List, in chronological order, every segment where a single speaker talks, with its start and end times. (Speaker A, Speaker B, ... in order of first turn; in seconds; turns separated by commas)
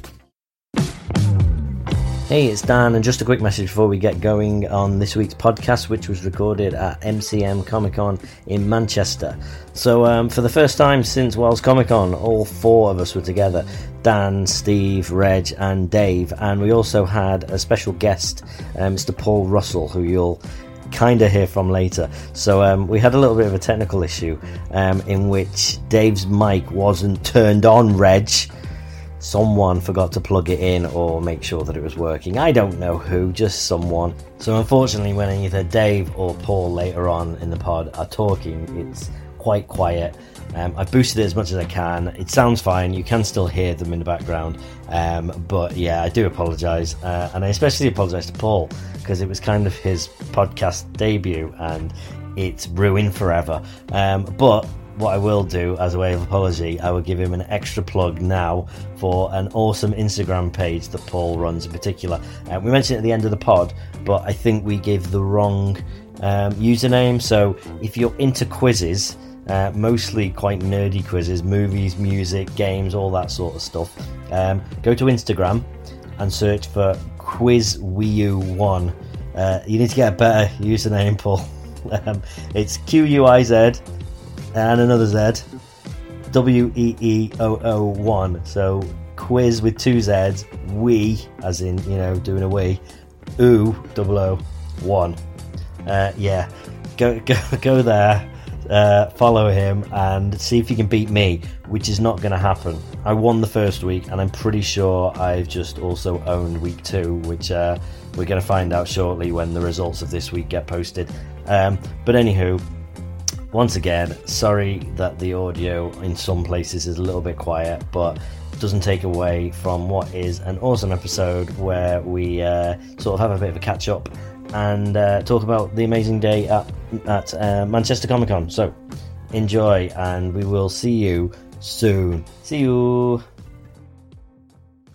Speaker A: 2.3-28.5, Speaker A: 29.2-75.7, Speaker A: 76.2-83.8, Speaker A: 84.5-85.4, Speaker A: 86.3-92.8, Speaker A: 93.4-95.2, Speaker A: 95.8-112.6, Speaker A: 113.5-128.8, Speaker A: 129.3-133.2